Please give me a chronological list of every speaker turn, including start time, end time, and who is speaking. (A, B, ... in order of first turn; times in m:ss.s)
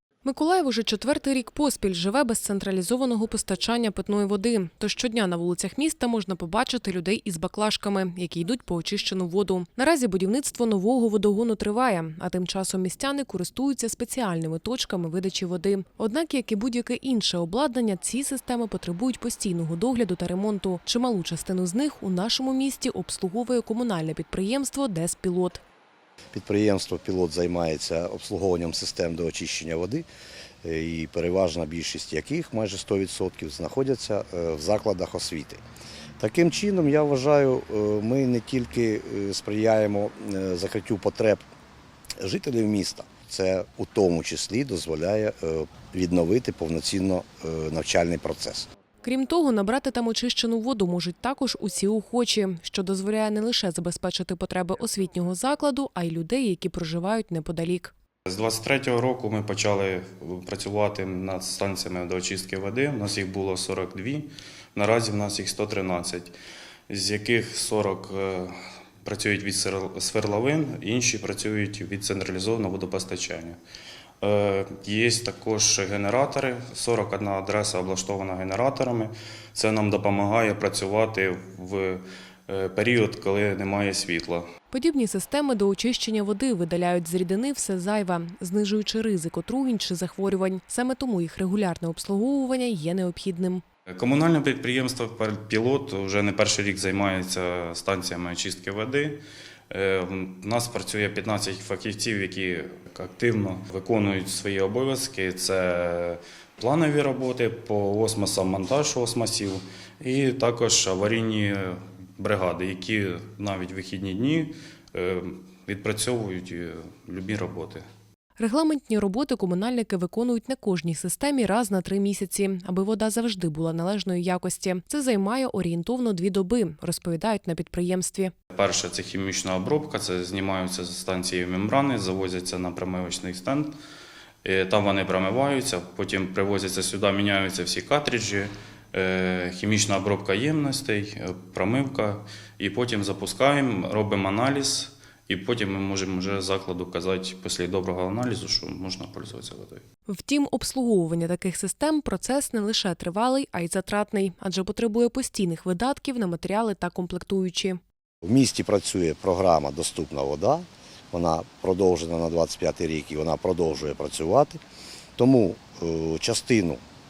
0:00.2-0:25.6 A
0:26.3-0:30.0 B
0:30.6-0:35.6 B
0:36.2-0:41.4 B
0:42.2-0:48.7 B
0:49.0-0:57.9 A
0:58.3-1:06.3 C
1:06.9-1:13.6 C
1:14.2-1:24.4 C
1:24.7-1:33.6 A
1:33.9-1:57.8 C
1:58.4-2:08.3 A
2:08.5-2:13.7 C
2:14.4-2:29.8 C
2:30.1-2:37.8 A
2:38.2-2:44.6 B
2:45.2-2:46.8 B